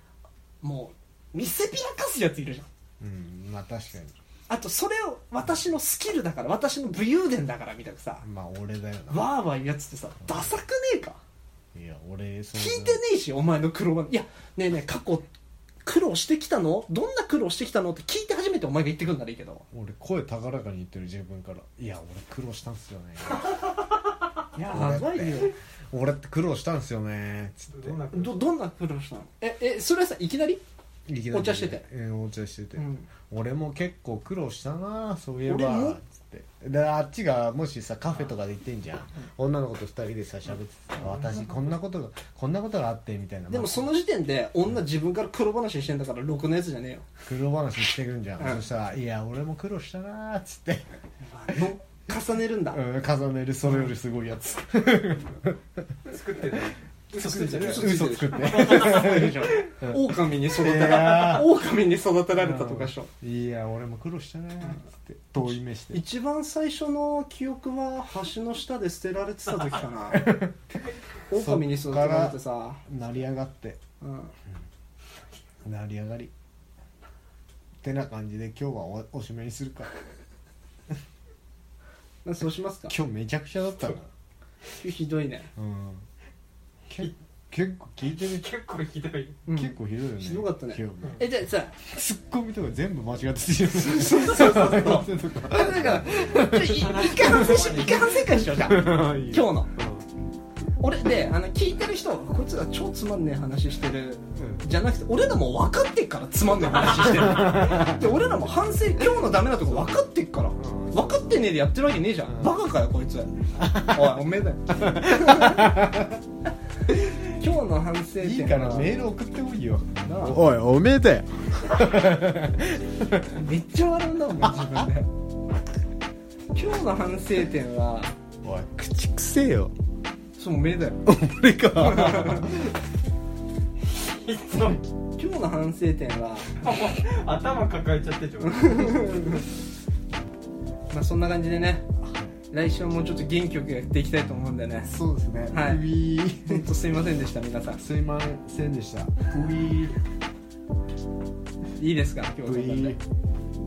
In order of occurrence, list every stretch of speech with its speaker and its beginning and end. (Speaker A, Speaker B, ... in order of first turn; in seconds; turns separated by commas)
Speaker A: 0.6-2.7, Speaker B: 3.0-4.1, Speaker A: 4.5-8.2, Speaker B: 8.2-9.3, Speaker A: 9.1-11.2, Speaker B: 11.7-13.0, Speaker A: 12.5-15.3, Speaker A: 15.8-19.6, Speaker B: 19.7-23.7, Speaker A: 24.5-25.5, Speaker B: 24.7-28.0, Speaker C: 27.7-28.5, Speaker A: 28.1-30.6, Speaker B: 31.1-43.9, Speaker A: 31.3-31.8, Speaker A: 32.8-33.1, Speaker A: 35.5-36.0, Speaker C: 41.0-41.6, Speaker A: 43.5-47.0, Speaker B: 47.2-50.9, Speaker A: 51.2-52.8, Speaker B: 52.7-55.8, Speaker C: 56.0-59.4, Speaker B: 57.2-61.5, Speaker A: 57.2-63.1, Speaker B: 62.4-66.0, Speaker A: 65.9-70.3, Speaker B: 70.1-70.6, Speaker A: 71.3-72.8, Speaker B: 71.3-73.8, Speaker A: 74.0-74.3, Speaker B: 75.6-76.3, Speaker B: 77.8-79.9, Speaker A: 82.2-82.9, Speaker B: 82.9-84.1, Speaker A: 84.7-85.5, Speaker B: 85.5-86.1, Speaker B: 86.9-88.5, Speaker C: 88.1-89.4, Speaker A: 89.5-91.7, Speaker B: 89.5-100.1, Speaker A: 93.7-99.7, Speaker C: 96.6-98.2, Speaker A: 100.8-115.8, Speaker B: 104.3-104.6, Speaker B: 107.2-108.0, Speaker B: 109.5-111.5, Speaker B: 112.2-112.5, Speaker B: 113.6-114.1, Speaker B: 114.8-116.2, Speaker A: 116.9-119.0, Speaker B: 118.2-123.3, Speaker A: 120.0-120.4, Speaker A: 123.3-125.1, Speaker B: 124.4-124.8, Speaker A: 126.5-128.1, Speaker B: 128.4-129.7, Speaker A: 130.4-131.1, Speaker B: 131.0-132.7, Speaker A: 131.8-132.5, Speaker C: 133.9-134.9, Speaker A: 135.2-136.5, Speaker C: 136.6-139.3, Speaker A: 138.5-139.4, Speaker A: 140.9-141.9, Speaker B: 142.0-142.3, Speaker A: 142.5-144.9, Speaker B: 144.9-146.7, Speaker A: 145.5-145.8, Speaker A: 146.4-147.8, Speaker B: 147.8-149.9, Speaker A: 151.8-153.0, Speaker B: 152.4-153.0